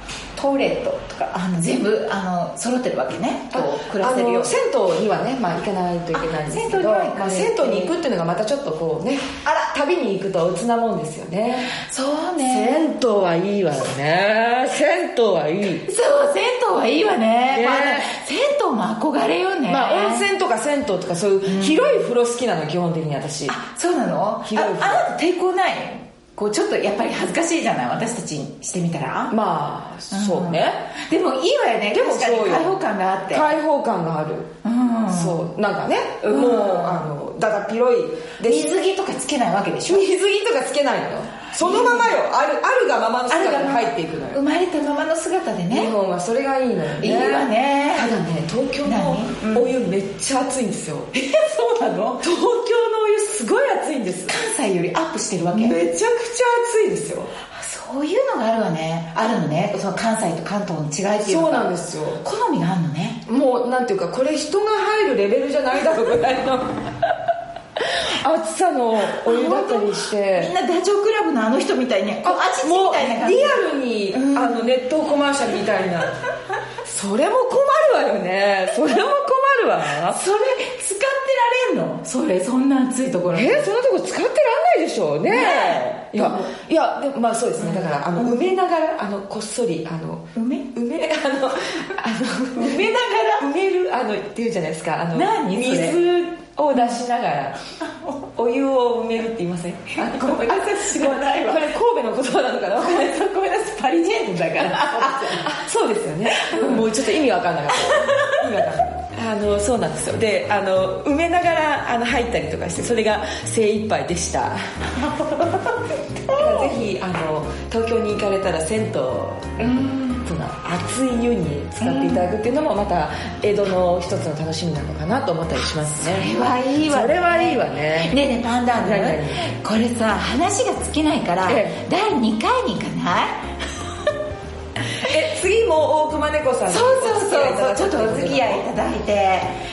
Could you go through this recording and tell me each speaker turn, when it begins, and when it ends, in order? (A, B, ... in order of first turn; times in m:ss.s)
0:00.3-0:04.5 A
0:03.5-0:11.7 B
0:06.1-0:08.0 A
0:11.7-0:12.9 A
0:12.4-0:15.9 B
0:15.8-0:20.3 A
0:17.5-0:18.1 B
0:19.7-0:23.6 B
0:21.4-0:21.8 A
0:23.5-0:29.4 A
0:24.4-0:25.0 B
0:29.3-0:30.9 B
0:30.1-0:33.5 A
0:31.9-0:32.8 B
0:33.3-0:34.5 B
0:34.6-0:35.4 A
0:35.1-0:38.8 B
0:36.2-0:37.1 A
0:38.4-0:40.1 A
0:39.9-0:44.4 B
0:41.5-0:42.2 A
0:43.3-0:45.9 A
0:45.7-0:51.1 B
0:47.0-0:48.1 A
0:48.8-0:49.7 A
0:51.1-0:52.2 A
0:52.2-0:54.4 B
0:54.3-0:55.8 A
0:55.5-0:57.3 B
0:57.5-1:03.2 A
1:01.2-1:02.2 B
1:03.2-1:07.1 B
1:07.8-1:10.5 B
1:09.1-1:14.7 A
1:12.2-1:16.2 B
1:16.8-1:20.2 B
1:20.1-1:23.6 A
1:23.3-1:37.6 B
1:25.2-1:26.5 A
1:27.6-1:28.4 A
1:30.3-1:30.7 A
1:32.6-1:33.5 A
1:35.1-1:36.0 A
1:36.7-1:37.0 A
1:37.9-1:38.2 A
1:38.3-1:43.3 B
1:39.9-1:41.7 A
1:42.7-1:45.5 A
1:44.6-1:54.6 B
1:46.3-1:46.8 A
1:47.7-1:48.4 A
1:55.0-1:56.7 A
1:56.3-2:06.3 B
1:59.6-2:00.2 A
2:01.8-2:02.3 A
2:06.0-2:13.5 A
2:06.8-2:08.2 B
2:08.7-2:09.5 B
2:11.4-2:11.8 B
2:14.9-2:18.6 B
2:16.7-2:19.6 A